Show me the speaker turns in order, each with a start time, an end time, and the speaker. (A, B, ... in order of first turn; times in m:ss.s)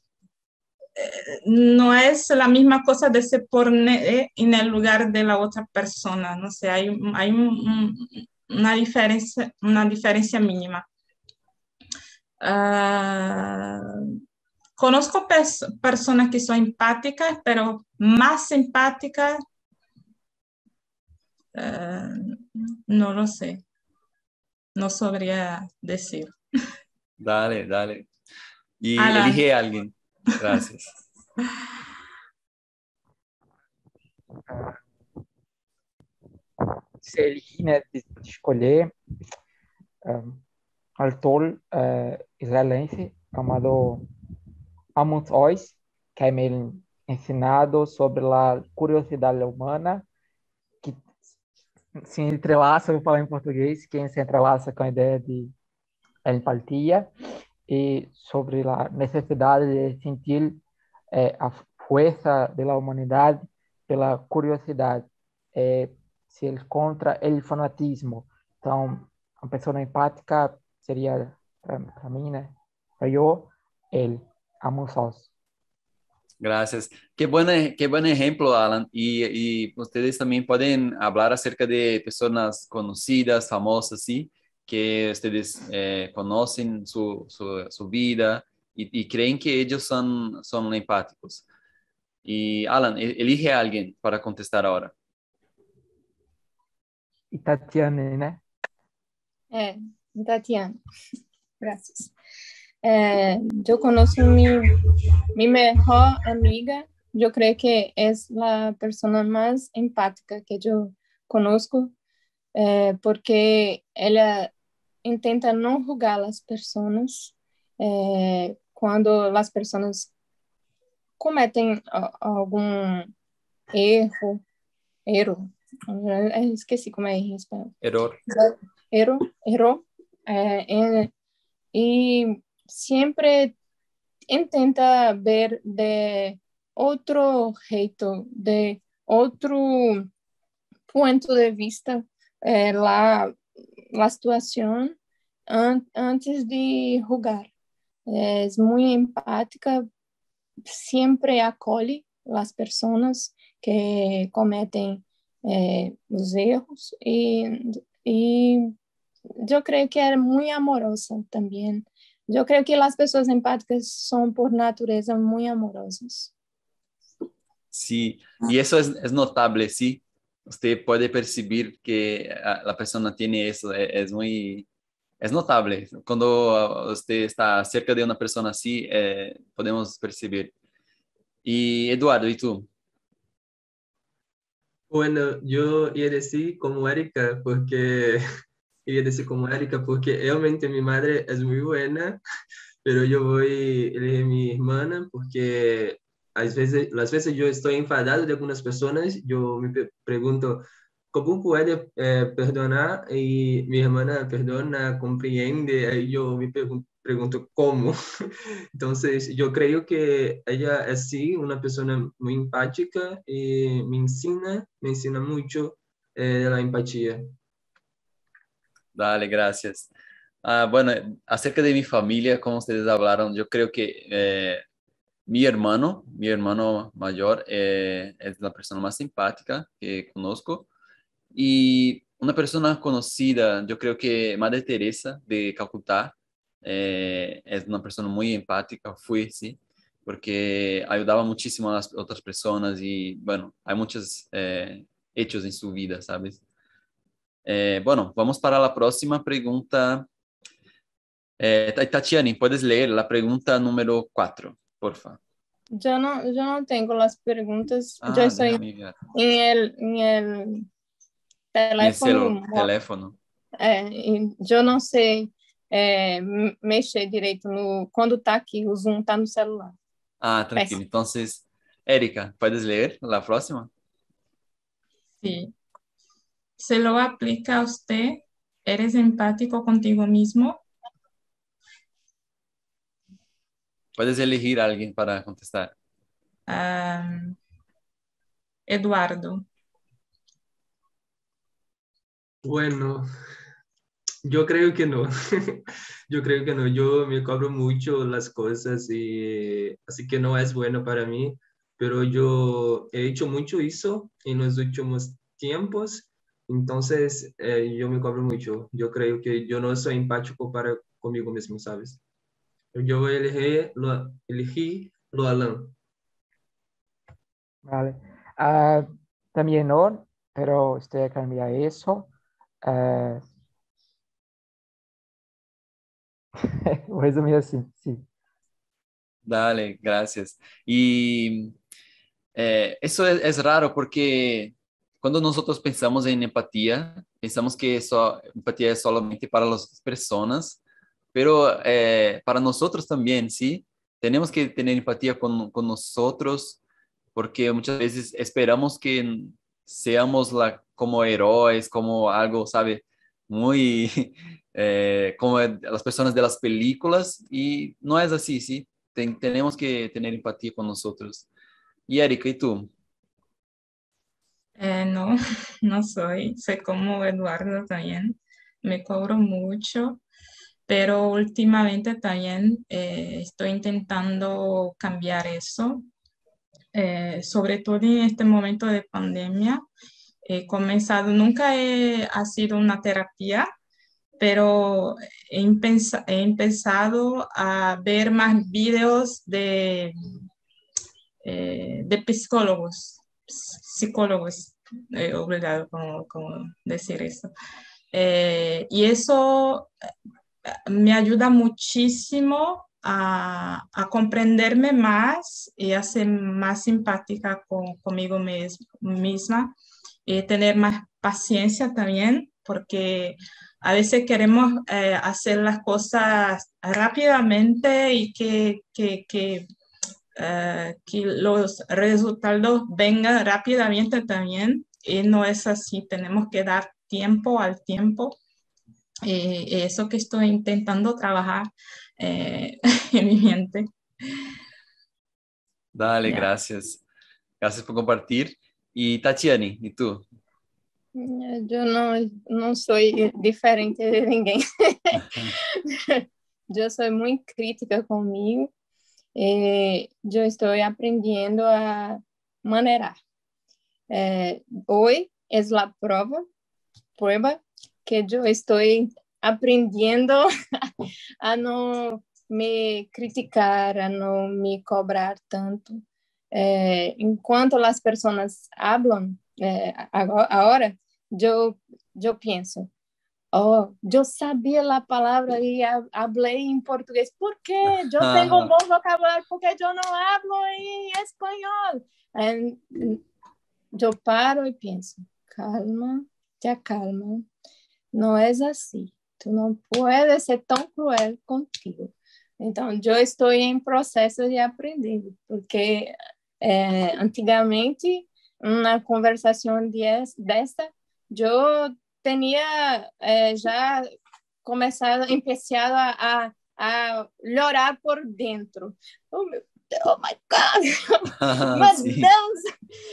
0:01.0-0:10.8 A
0:12.4-0:14.1 A
0:14.8-0:19.4 A
0:21.5-0:23.6 A
0:24.8-0:26.3 A
0:27.2-0:28.1 B
0:28.8-0:30.9 B
0:29.0-0:29.4 A
0:34.5-0:34.8 C
0:36.6-0:38.9 C
0:40.0-0:40.4 C
0:41.0-0:44.0 C
0:45.0-0:50.0 C
0:52.0-0:55.5 C
0:56.2-0:57.1 C
0:57.7-1:00.6 C
1:01.1-1:15.3 C
1:16.4-1:31.4 B
1:32.2-1:34.9 B
1:37.3-1:38.4 C
1:39.5-1:40.8 D
1:41.6-1:42.1 D
1:42.8-1:44.8 D
1:45.3-1:51.9 D
1:52.5-1:54.5 D
1:55.0-2:00.1 D
2:01.2-2:03.1 D
2:03.7-2:04.4 D
2:05.1-2:07.7 D
2:07.8-2:08.2 B
2:08.3-2:11.1 D
2:11.7-2:13.5 D
2:14.3-2:20.1 D
2:20.9-2:23.4 D
2:23.9-2:24.9 D
2:25.5-2:27.5 D
2:28.1-2:29.8 D
2:30.6-2:38.7 D
2:39.4-2:46.3 D
2:47.7-2:54.6 B
2:55.2-3:00.5 B
3:01.4-3:02.7 B
3:04.9-3:08.2 E
3:08.8-3:12.2 E
3:12.8-3:28.0 E
3:28.7-3:37.3 E
3:38.9-3:39.9 B
3:40.4-3:44.6 B
3:45.3-3:50.7 B
3:51.3-4:06.4 B
4:07.4-4:10.1 B
4:11.4-4:15.2 B
4:15.7-4:18.6 D
4:18.0-4:19.0 B
4:19.1-4:20.6 D
4:21.5-4:22.7 D
4:21.8-4:23.2 B
4:23.6-4:29.7 D
4:30.2-4:33.7 B
4:35.2-4:35.5 A
4:36.6-4:40.6 A
4:44.0-4:45.7 B
4:46.5-4:47.4 A
4:48.7-4:49.4 A
4:52.4-4:53.0 E
4:54.2-5:12.0 E
5:12.7-5:15.7 E
5:17.6-5:22.1 C
5:22.6-5:23.2 C
5:26.4-5:28.0 C
5:29.2-5:31.5 B
5:32.4-5:40.6 B
5:41.1-5:46.6 B
5:47.1-6:01.3 B
6:01.9-6:02.7 B
6:04.6-6:10.0 A
6:10.7-6:15.8 A
6:16.7-6:19.6 A
6:20.2-6:23.4 A
6:24.2-6:29.9 A
6:31.2-6:37.3 A
6:37.9-6:39.7 A
6:40.5-6:49.5 A
6:50.0-6:59.4 A
7:00.2-7:08.2 A
7:09.0-7:13.6 A
7:15.7-7:16.8 B
7:17.4-7:20.0 B
7:20.9-7:28.5 D
7:29.2-7:33.0 D
7:33.9-7:36.3 D
7:37.0-7:40.7 D
7:41.2-7:45.8 D
7:46.3-7:52.7 D
7:53.3-8:03.0 D
7:58.0-7:58.5 B
8:03.7-8:07.3 D
8:07.9-8:23.9 D
8:24.4-8:32.5 D
8:31.2-8:32.1 B